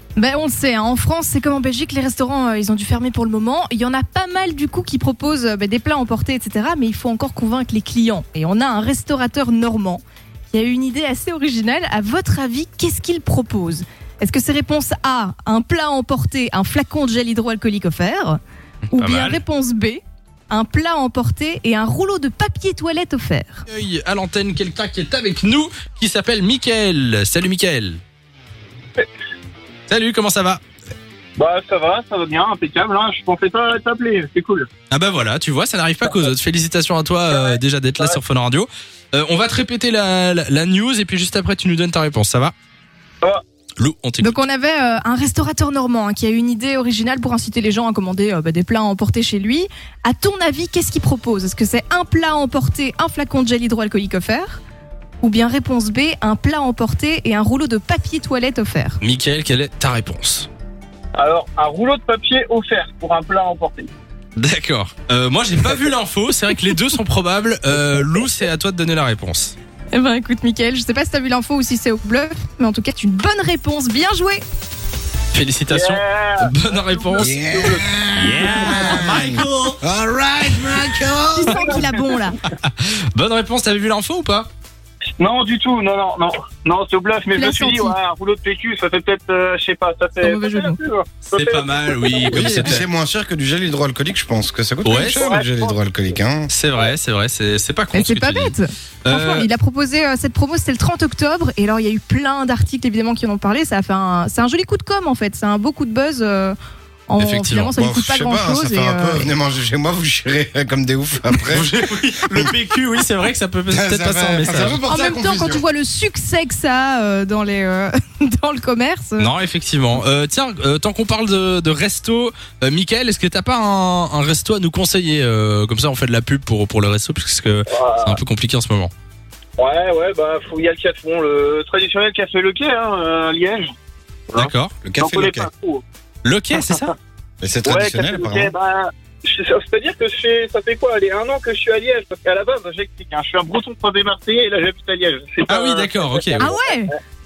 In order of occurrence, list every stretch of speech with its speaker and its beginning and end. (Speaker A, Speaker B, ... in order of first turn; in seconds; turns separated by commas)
Speaker A: 0.1-18.4, Speaker B: 18.9-19.4, Speaker A: 18.9-23.6, Speaker B: 23.7-28.0, Speaker B: 29.9-30.6, Speaker C: 31.4-34.7, Speaker B: 34.9-42.5, Speaker C: 37.3-38.2, Speaker B: 43.8-44.4, Speaker A: 44.2-54.6, Speaker A: 55.2-59.0, Speaker B: 59.0-60.5, Speaker C: 61.1-63.9, Speaker B: 64.3-69.5, Speaker A: 69.9-74.4, Speaker B: 75.3-79.8, Speaker C: 75.7-77.8, Speaker D: 77.2-81.8, Speaker A: 81.3-82.4, Speaker B: 82.6-84.5, Speaker C: 85.2-92.4, Speaker A: 87.3-88.0, Speaker A: 90.2-90.8, Speaker B: 91.2-92.8, Speaker D: 92.3-96.5, Speaker B: 94.8-95.2, Speaker C: 95.0-95.8, Speaker B: 96.5-99.5, Speaker A: 97.9-106.5, Speaker A: 107.1-109.2, Speaker B: 107.2-107.7, Speaker D: 107.7-112.5, Speaker B: 111.3-114.8, Speaker D: 113.7-115.6, Speaker A: 114.8-119.3, Speaker B: 119.2-128.9, Speaker C: 127.7-128.2, Speaker C: 129.6-133.7, Speaker C: 134.3-135.8, Speaker B: 134.3-134.8, Speaker D: 134.8-135.5, Speaker B: 136.2-136.9, Speaker D: 137.4-138.5, Speaker C: 137.7-146.6, Speaker B: 145.5-146.5, Speaker A: 146.4-146.9